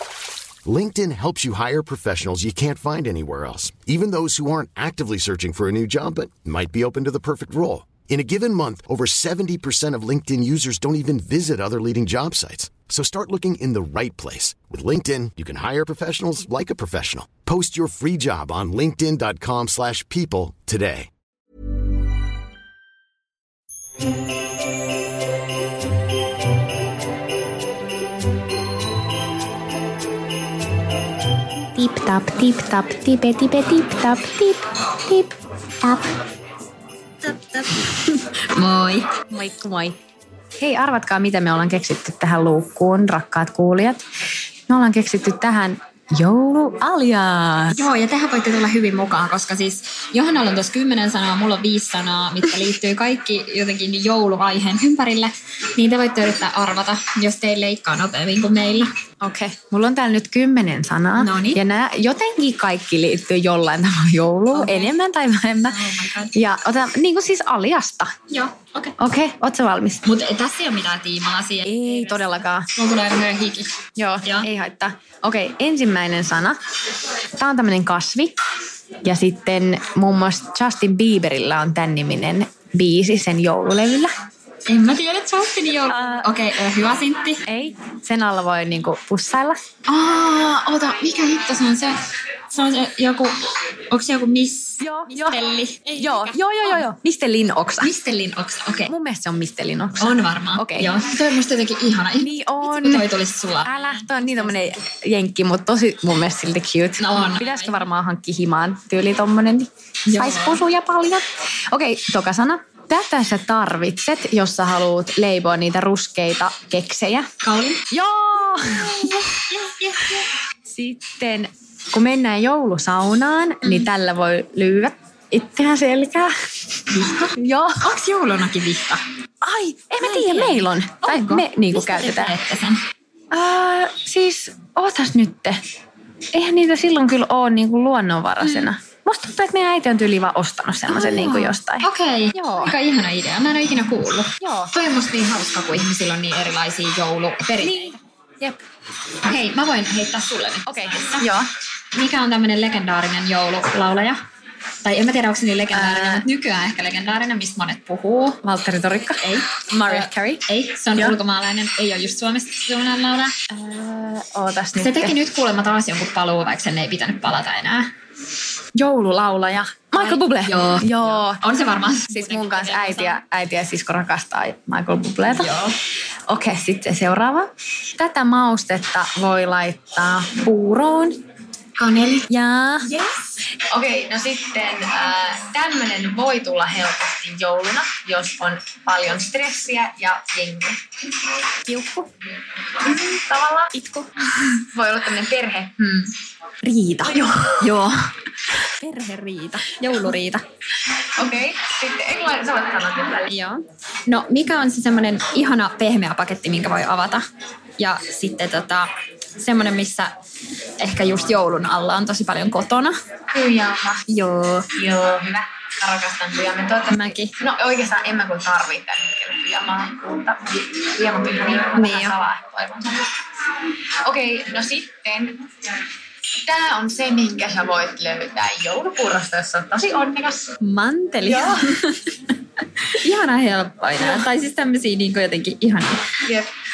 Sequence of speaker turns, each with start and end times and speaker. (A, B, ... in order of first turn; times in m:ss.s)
0:00.6-0:21.1 A
0:31.7-0:35.3 B
0:37.2-0:39.1 C
0:39.3-0:40.0 B
0:40.6-0:44.0 B
0:44.7-0:47.8 B
0:47.7-0:58.9 C
0:59.2-1:05.8 B
1:01.2-1:01.6 C
1:04.5-1:05.0 C
1:05.7-1:06.5 C
1:06.3-1:08.1 B
1:08.3-1:09.0 C
1:09.0-1:10.0 B
1:10.0-1:14.5 C
1:11.6-1:12.7 B
1:13.9-1:16.6 B
1:17.3-1:18.4 B
1:19.0-1:24.1 B
1:24.7-1:27.4 C
1:27.5-1:31.8 B
1:31.4-1:31.8 C
1:32.5-1:33.4 C
1:33.9-1:36.8 C
1:34.8-1:35.4 B
1:36.0-1:37.9 B
1:37.8-1:38.9 C
1:38.8-1:40.9 B
1:40.0-1:44.8 C
1:42.2-1:43.1 B
1:43.6-1:57.3 B
1:47.0-1:47.9 C
1:50.0-1:50.6 C
1:57.4-1:57.9 C
1:57.9-1:59.2 B
1:58.7-2:00.3 C
2:00.6-2:06.3 B
2:06.9-2:07.3 C
2:06.9-2:07.9 B
2:07.8-2:09.0 C
2:09.4-2:12.3 B
2:10.0-2:12.8 C
2:13.3-2:15.6 B
2:16.3-2:22.7 B
2:18.4-2:18.7 C
2:20.9-2:27.9 C
2:24.4-2:24.7 B
2:27.6-2:28.6 B
2:29.2-2:31.3 C
2:30.6-2:31.5 B
2:31.9-2:34.2 C
2:34.8-2:38.4 C
2:35.7-2:36.2 B
2:38.4-2:40.4 B
2:39.2-2:43.4 C
2:43.5-2:45.2 B
2:44.7-2:47.9 C
2:48.7-2:51.4 B
2:50.0-2:53.2 C
2:52.1-2:55.5 B
2:55.2-2:55.7 C
2:56.3-3:01.2 B
3:01.8-3:03.0 B
3:03.7-3:10.8 B
3:11.6-3:12.1 C
3:12.8-3:13.7 B
3:13.7-3:14.5 C
3:14.7-3:16.1 B
3:16.6-3:18.0 C
3:17.2-3:17.5 B
3:18.5-3:20.4 C
3:21.1-3:23.3 B
3:23.3-3:27.2 C
3:27.8-3:30.2 C
3:30.8-3:33.0 C
3:33.3-3:34.0 B
3:34.1-3:34.7 C
3:34.7-3:43.1 B
3:36.9-3:37.4 C
3:41.7-3:42.2 C
3:44.0-3:45.4 B
3:46.4-3:50.5 B
3:50.6-3:52.1 C
3:51.2-3:51.6 B
3:52.9-3:56.0 C
3:56.2-3:56.5 B